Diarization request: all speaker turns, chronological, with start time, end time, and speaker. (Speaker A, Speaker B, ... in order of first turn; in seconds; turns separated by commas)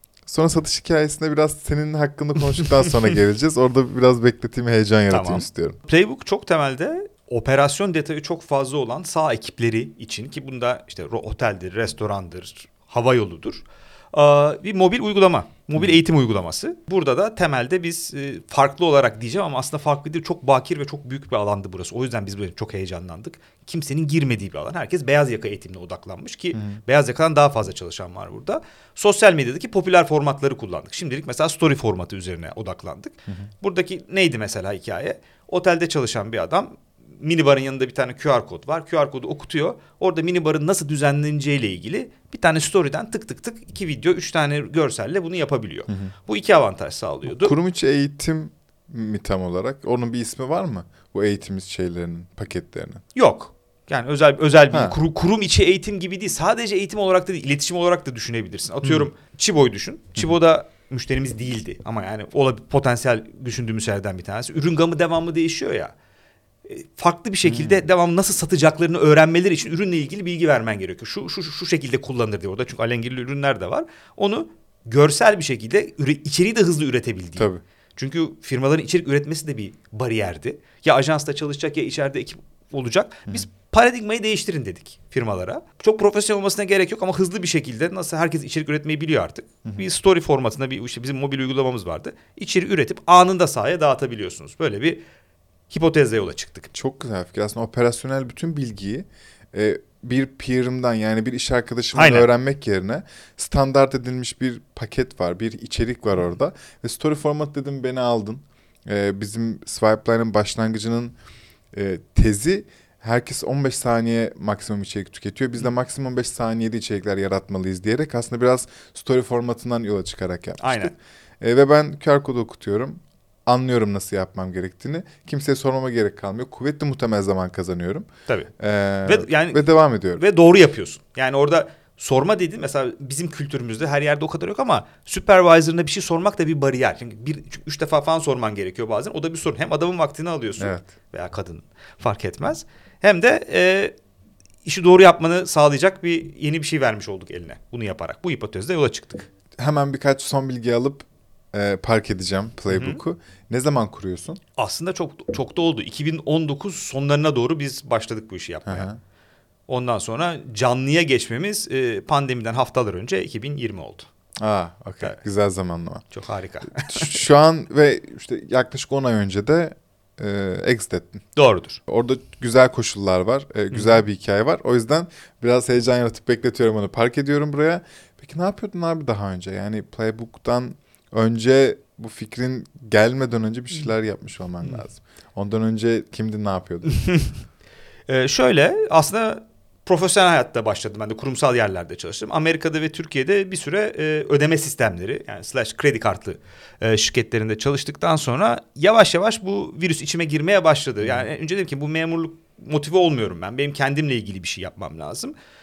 Speaker A: 0.3-5.8, Speaker B: 5.1-47.5, Speaker A: 26.5-26.8, Speaker A: 45.9-46.1, Speaker A: 47.3-53.0, Speaker B: 53.1-65.9, Speaker A: 54.7-55.0, Speaker B: 66.7-95.0, Speaker A: 67.5-67.8, Speaker A: 77.4-77.6, Speaker B: 95.7-96.7, Speaker A: 96.7-111.2, Speaker B: 101.9-102.3, Speaker A: 111.7-128.1, Speaker B: 120.6-120.9, Speaker A: 128.6-130.2, Speaker B: 129.1-143.9, Speaker A: 140.6-140.9, Speaker B: 144.7-149.3, Speaker A: 149.6-154.4, Speaker B: 152.7-153.0, Speaker B: 154.6-158.9, Speaker A: 158.7-159.0, Speaker B: 159.7-164.1, Speaker A: 164.4-166.0, Speaker B: 166.1-167.2, Speaker A: 166.8-171.2, Speaker B: 171.4-171.8, Speaker A: 171.9-187.0, Speaker B: 186.9-187.3, Speaker B: 188.1-205.3, Speaker A: 201.0-201.3